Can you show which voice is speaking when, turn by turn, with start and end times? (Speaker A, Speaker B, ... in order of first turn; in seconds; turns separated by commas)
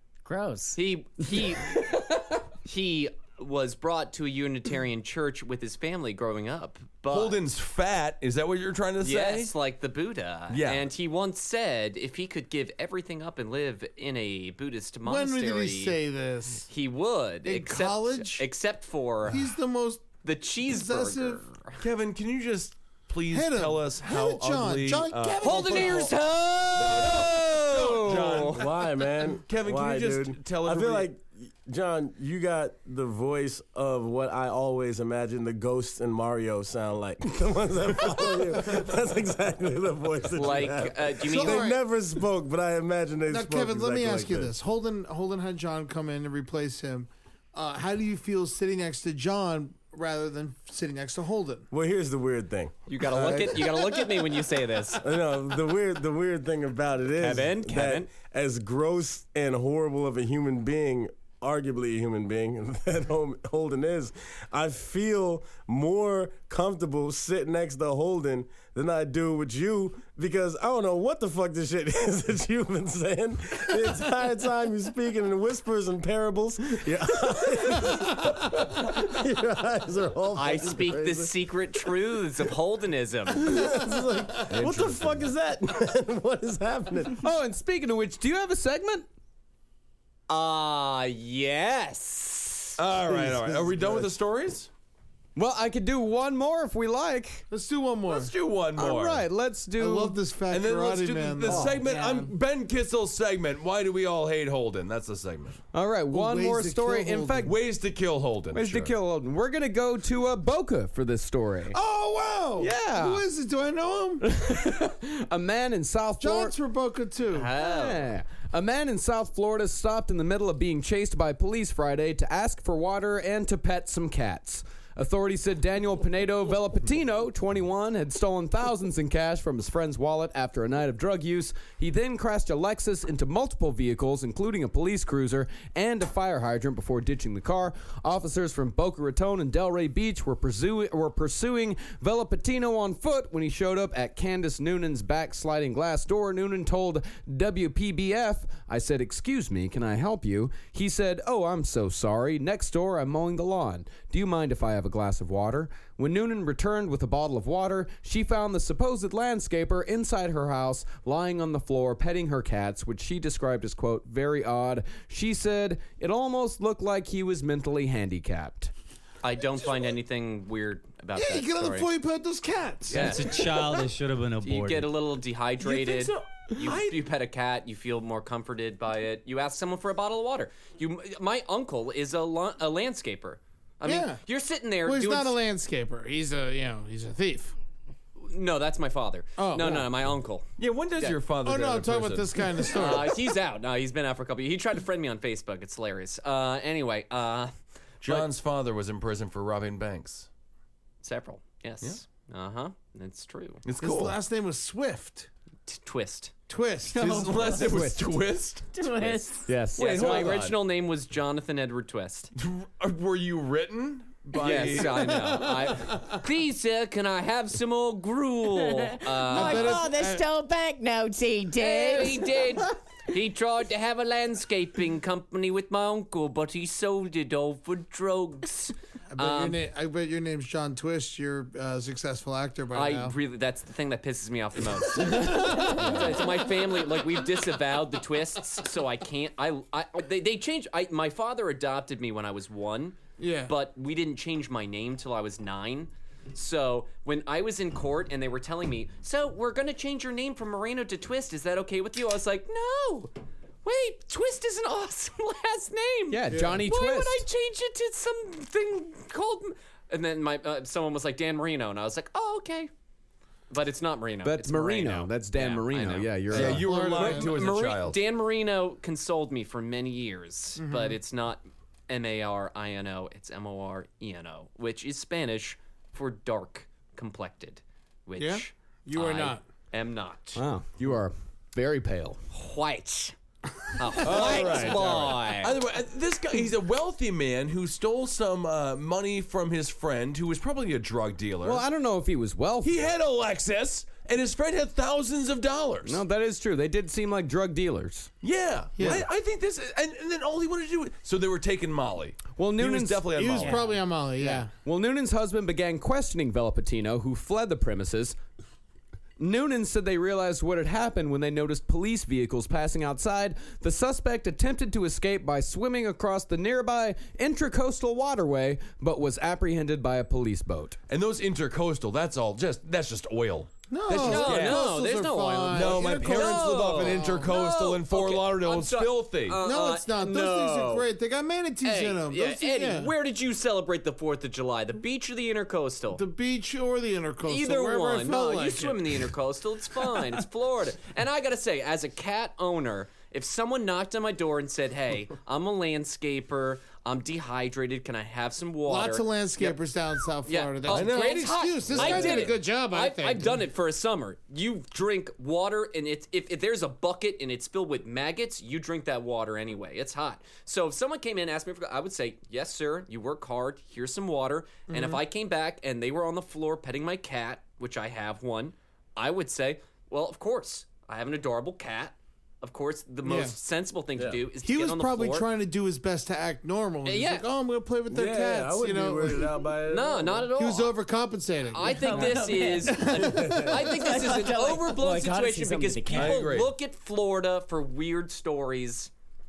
Speaker A: 0.2-0.8, Speaker B: 0.7-7.4, Speaker C: 7.1-9.5, Speaker B: 9.0-16.0, Speaker C: 10.5-10.8, Speaker D: 15.0-16.7, Speaker B: 16.7-19.5, Speaker D: 17.4-18.4, Speaker D: 19.3-20.1, Speaker B: 20.2-21.8, Speaker D: 20.6-21.4, Speaker C: 21.8-26.1, Speaker D: 23.3-26.1, Speaker B: 25.4-28.6, Speaker C: 26.8-28.7, Speaker E: 28.5-44.5, Speaker C: 29.4-31.1, Speaker B: 40.3-41.7, Speaker D: 41.2-41.8, Speaker D: 43.3-51.7, Speaker E: 51.7-54.0, Speaker B: 52.9-55.0, Speaker E: 55.0-81.3, Speaker B: 57.2-58.1, Speaker B: 80.3-83.6, Speaker E: 83.4-87.2, Speaker F: 84.5-85.3, Speaker F: 87.2-89.1, Speaker B: 90.3-92.8, Speaker C: 92.8-94.7, Speaker E: 93.1-94.1, Speaker F: 95.3-97.5, Speaker D: 97.5-98.3, Speaker C: 98.1-99.2, Speaker F: 98.8-100.2, Speaker D: 99.8-101.8, Speaker C: 100.5-105.6, Speaker F: 101.5-101.8, Speaker A: 101.7-102.3, Speaker F: 105.7-107.5, Speaker D: 106.1-107.6, Speaker C: 107.4-108.9, Speaker F: 108.5-111.8, Speaker D: 111.7-114.2, Speaker F: 112.6-113.2, Speaker F: 114.2-116.5, Speaker D: 116.2-117.5, Speaker B: 117.3-118.1, Speaker F: 117.6-168.7, Speaker B: 169.2-171.9, Speaker D: 171.1-173.3, Speaker B: 172.9-173.9, Speaker G: 172.9-174.9, Speaker B: 174.4-185.4, Speaker C: 175.6-177.0, Speaker D: 183.8-184.2, Speaker D: 184.8-187.5, Speaker B: 188.2-190.5, Speaker D: 189.4-189.9, Speaker C: 190.6-192.7, Speaker D: 191.4-193.2, Speaker B: 192.7-197.5, Speaker C: 198.0-200.3, Speaker B: 201.0-203.6, Speaker C: 203.6-204.2, Speaker D: 203.8-205.3, Speaker B: 205.7-206.3, Speaker D: 206.5-207.7, Speaker C: 206.9-209.2, Speaker F: 207.5-208.1, Speaker A: 208.7-209.5, Speaker F: 209.5-210.4, Speaker C: 209.7-210.6, Speaker B: 209.8-212.3, Speaker C: 212.3-215.5, Speaker B: 214.3-219.8, Speaker D: 215.2-216.0, Speaker A: 218.6-222.4, Speaker D: 219.2-220.2, Speaker B: 221.6-229.6, Speaker D: 229.1-233.1, Speaker B: 232.7-253.1, Speaker D: 235.1-236.0, Speaker D: 243.2-243.5, Speaker B: 253.6-262.7, Speaker F: 256.1-257.2, Speaker D: 256.3-256.6, Speaker B: 263.5-280.4, Speaker F: 264.2-266.7, Speaker C: 266.3-268.0, Speaker D: 266.3-267.4, Speaker D: 270.6-271.0, Speaker D: 278.2-279.4, Speaker F: 280.4-282.2, Speaker B: 282.3-283.1, Speaker B: 283.8-285.6, Speaker C: 284.0-291.6, Speaker D: 284.1-284.6, Speaker F: 291.4-292.8, Speaker C: 292.6-296.0, Speaker F: 295.9-298.1, Speaker C: 298.2-303.6, Speaker D: 298.8-299.1, Speaker F: 302.4-303.2, Speaker D: 303.1-304.5, Speaker F: 304.2-308.2, Speaker F: 309.2-320.8, Speaker C: 320.9-324.7, Speaker D: 323.7-327.3, Speaker B: 323.9-330.9, Speaker C: 325.5-329.4, Speaker D: 329.4-332.9, Speaker B: 331.6-336.0, Speaker D: 335.9-339.0, Speaker B: 337.2-349.6, Speaker D: 348.7-353.4, Speaker B: 350.2-375.3, Speaker C: 350.7-352.4, Speaker D: 364.7-365.0, Speaker D: 373.0-373.3, Speaker E: 374.0-374.2, Speaker D: 374.4-379.4, Speaker B: 376.8-377.2, Speaker E: 377.9-380.3, Speaker B: 379.7-380.8, Speaker D: 380.3-383.5, Speaker B: 381.5-388.9, Speaker A: 381.6-386.3, Speaker E: 383.0-383.6, Speaker C: 385.9-386.5